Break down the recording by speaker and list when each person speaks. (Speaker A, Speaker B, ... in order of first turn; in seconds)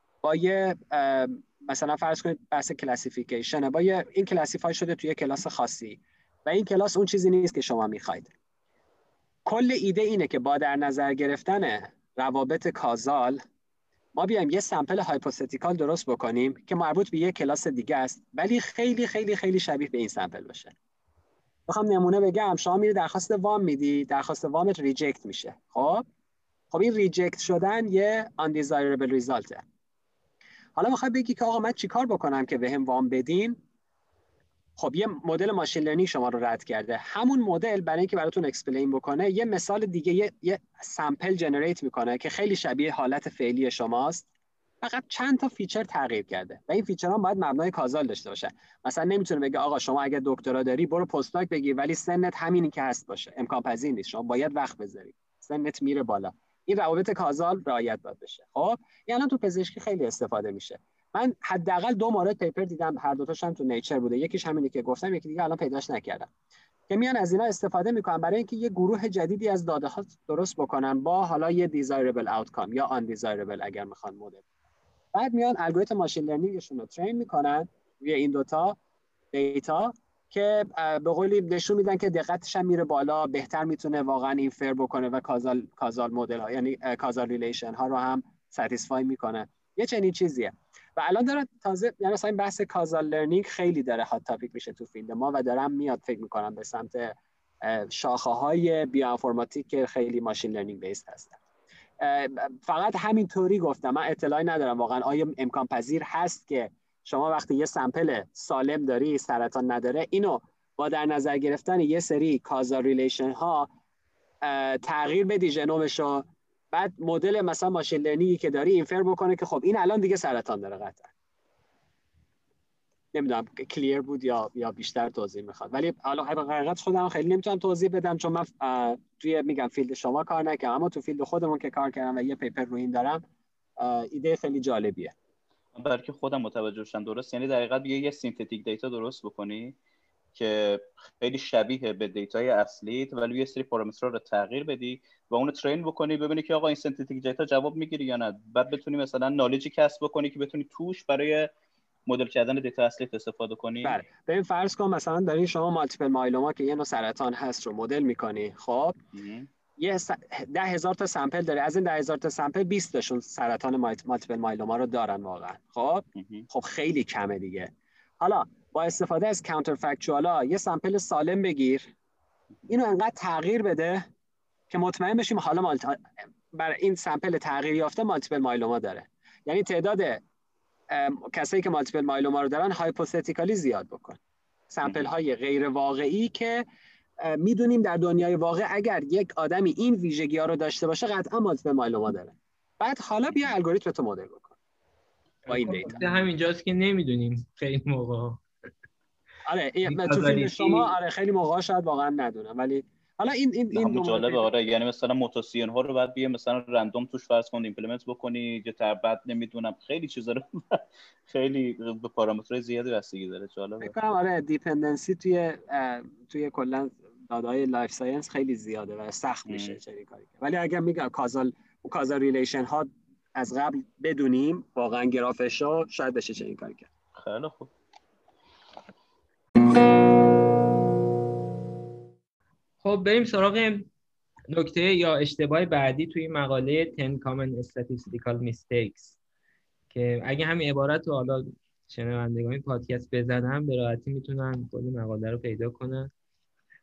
Speaker A: 0.2-8.3, 9.5-13.4, 14.2-20.7, 21.7-26.0, 26.7-29.6, 30.8-33.6, 34.8-44.3, 44.8-66.3, 66.9-74.4, 75.1-78.8, 79.3-101.4, 102.0-113.7, 114.4-121.1, 123.1-133.2, 133.8-135.1, 153.8-159.0, 159.8-171.9, 172.7-174.0, 174.7-180.2, 180.9-184.2, 184.7-186.6, 187.2-194.6, 195.5-196.2, 199.5-204.5, 213.8-226.9
Speaker B: 135.8-139.8, 140.3-151.5, 152.1-154.0, 159.1-159.5, 166.2-166.5, 184.8-185.1, 203.7-213.9, 219.5-219.8, 227.2-227.7
Speaker C: 195.5-198.4, 199.9-200.9, 232.8-233.9, 234.5-239.2, 239.9-246.1